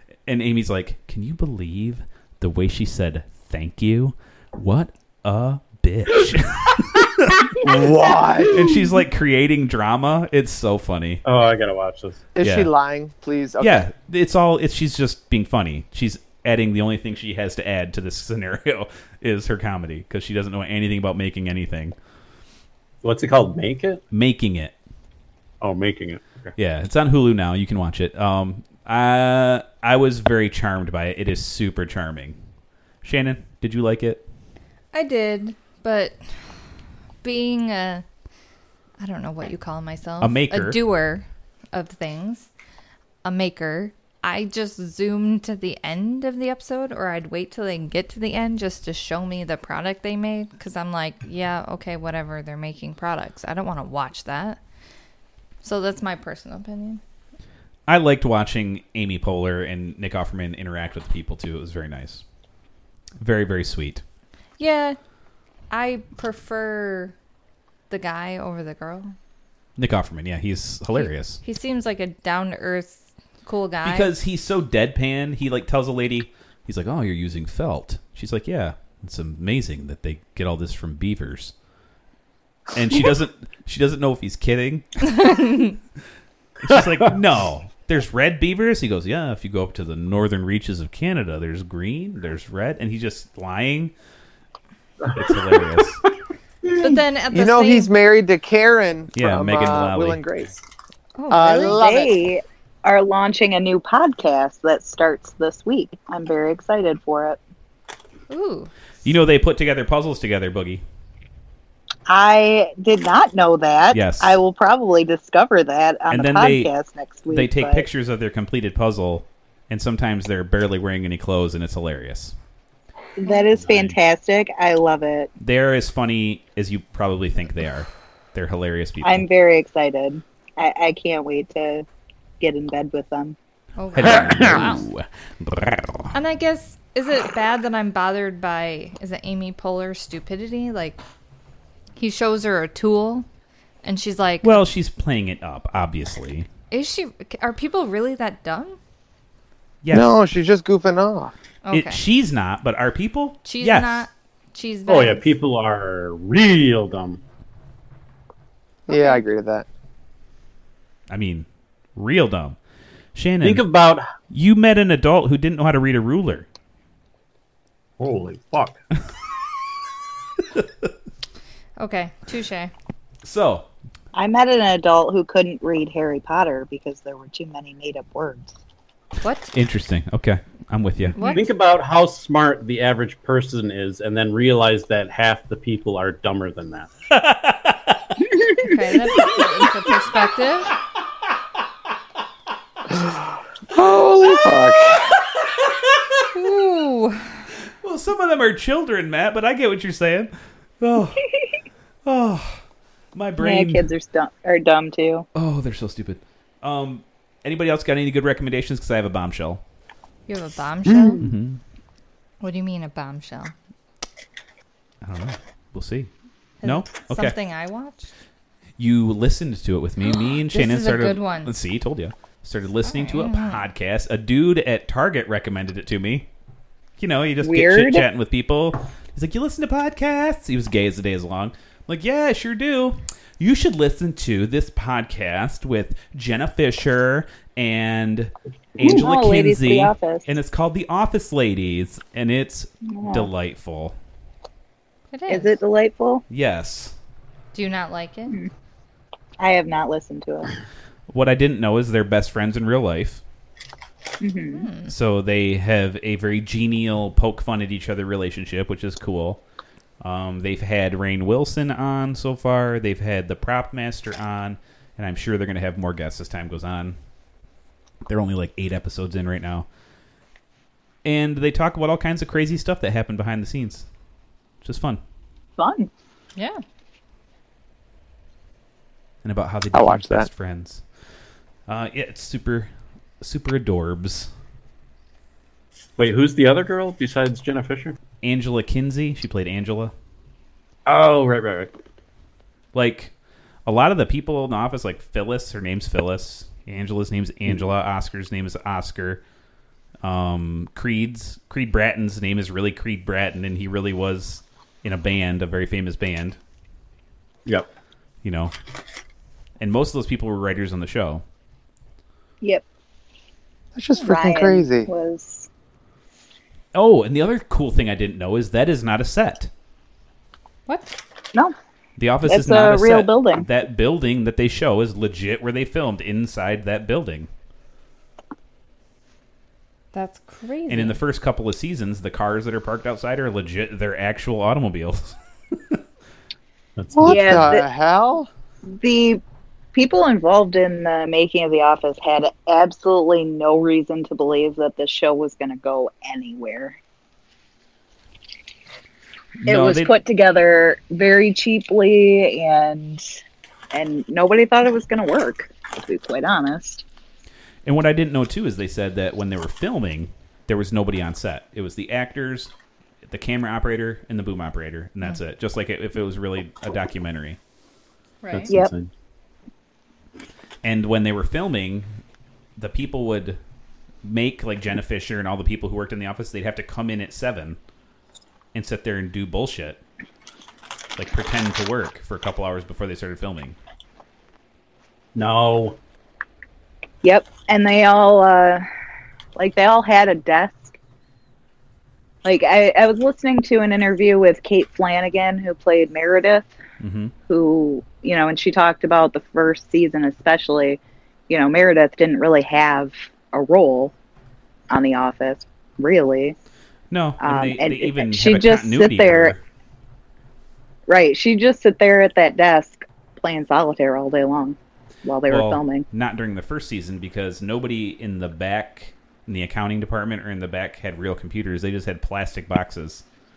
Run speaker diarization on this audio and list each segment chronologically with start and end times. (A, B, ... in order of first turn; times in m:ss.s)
0:00.2-0:07.5 A
0:07.6-0:08.8 B
0:08.5-0:11.2 A
0:11.2-0:12.2 C
0:12.3-0:13.8 B
0:12.4-0:12.7 A
0:13.6-0:21.9 A
0:23.0-0:24.0 C
0:24.1-0:24.7 A
0:25.6-0:26.5 C
0:26.6-0:32.4 A
0:33.0-0:34.2 A
0:34.9-0:36.5 D
0:37.2-0:38.0 D
0:39.0-0:42.5 D
0:40.2-0:40.8 A
0:43.2-0:54.6 D
0:55.6-0:57.0 D
0:57.9-1:02.2 A
1:03.2-1:04.0 A
1:04.6-1:05.0 D
1:05.7-1:07.1 D
1:07.9-1:09.1 D
1:09.8-1:11.4 A
1:10.9-1:14.1 D
1:13.8-1:21.5 A
1:22.7-1:25.2 A
1:25.0-1:25.7 D
1:26.6-1:33.9 A
1:35.0-1:35.8 C
1:35.1-1:36.0 A
1:36.6-1:36.9 C
1:36.7-1:37.9 D
1:37.3-1:40.5 B
1:39.1-1:40.2 A
1:41.2-1:42.1 D
1:41.3-1:42.1 B
1:41.5-1:47.4 E
1:48.3-1:48.7 D
1:49.0-1:50.8 A
1:52.1-1:57.8 E
1:53.9-1:54.4 A
1:56.1-1:56.7 A
1:57.3-2:02.3 A
2:03.2-2:05.3 E
2:03.5-2:04.0 C
2:05.4-2:09.3 A
2:09.0-2:11.8 E
2:12.4-2:13.4 E
2:13.8-2:14.8 D
2:13.9-2:16.1 A
2:16.1-2:21.0 D
2:22.0-2:23.2 D
2:23.8-2:24.6 D
2:24.4-2:26.5 A
2:26.7-2:28.8 D
2:29.8-2:30.1 A
2:29.9-2:31.3 B
2:31.6-2:32.0 D
2:31.7-2:34.0 A
2:33.4-2:35.2 D
2:34.8-2:37.2 C
2:38.9-2:39.6 B
2:38.9-2:39.2 D
2:41.1-2:42.6 A
2:43.1-2:43.6 A
2:43.4-2:44.0 C
2:44.3-2:46.4 A
2:48.0-2:48.8 C
2:51.8-2:52.7 D
2:53.2-2:53.7 A
2:54.1-2:58.5 E
2:59.2-2:59.5 D
2:59.5-3:01.2 A
3:01.1-3:01.5 D
3:01.2-3:06.9 C
3:07.1-3:08.2 A
3:08.6-3:10.7 D
3:12.9-3:13.2 B
3:13.7-3:15.2 B
3:16.3-3:17.3 D
3:17.8-3:21.3 A
3:22.0-3:22.6 A
3:23.1-3:23.9 A
3:23.4-3:25.2 E
3:25.3-3:29.6 A
3:30.3-3:31.2 D
3:30.9-3:31.2 C
3:31.2-3:31.6 A
3:32.4-3:33.5 D
3:35.0-3:36.1 A
3:36.6-3:38.1 D
3:36.6-3:37.4 A
3:38.8-3:46.3 A
3:40.0-3:41.5 D
3:42.8-3:43.6 D
3:47.0-4:04.0 A
3:47.4-3:48.1 E
3:58.8-4:00.3 E
4:02.8-4:03.3 E
4:05.1-4:05.6 D
4:05.3-4:06.2 E
4:06.3-4:06.9 A
4:07.5-4:08.4 D
4:09.4-4:10.5 E
4:11.1-4:13.2 A
4:14.2-4:14.7 E
4:14.5-4:14.9 D
4:14.9-4:19.4 A
4:20.0-4:27.0 A
4:28.1-4:29.6 A
4:31.0-4:33.8 A
4:34.6-4:35.0 A
4:35.6-4:35.9 E
4:36.4-4:36.6 D
4:39.2-4:40.8 A
4:39.7-4:40.3 B
4:41.7-4:42.7 A
4:43.2-4:44.3 A
4:46.0-4:48.0 C
4:48.2-4:49.9 A
4:50.8-4:51.7 C
4:52.7-4:53.1 A
4:53.6-4:59.2 A
5:00.0-5:06.4 A
5:08.2-5:08.5 A
5:09.6-5:11.2 A
5:13.7-5:14.9 B
5:14.0-5:15.5 E
5:16.7-5:19.5 A
5:20.7-5:21.0 D
5:22.0-5:27.3 A
5:22.2-5:23.4 E
5:29.9-5:31.0 D
5:30.7-5:35.8 A
5:36.8-5:37.5 C
5:36.9-5:38.3 B
5:37.0-5:37.7 E
5:38.7-5:39.2 E
5:39.7-5:46.8 E
5:49.4-5:49.9 A
5:49.5-5:53.0 E
5:53.7-5:56.8 E
5:57.6-6:02.5 A
6:03.1-6:07.4 A
6:08.2-6:08.5 D
6:08.3-6:08.9 C
6:10.6-6:11.9 A
6:12.6-6:13.4 A
6:14.0-6:17.6 A
6:18.5-6:19.8 A
6:21.0-6:23.6 A
6:25.1-6:25.8 C
6:27.0-6:28.6 E
6:29.4-6:30.8 E
6:32.2-6:36.5 E
6:36.8-6:37.1 A
6:37.3-6:43.9 E
6:44.7-6:46.4 E
6:46.9-6:49.4 A
6:47.2-6:49.3 E
6:50.9-6:55.8 E
6:55.3-7:03.0 A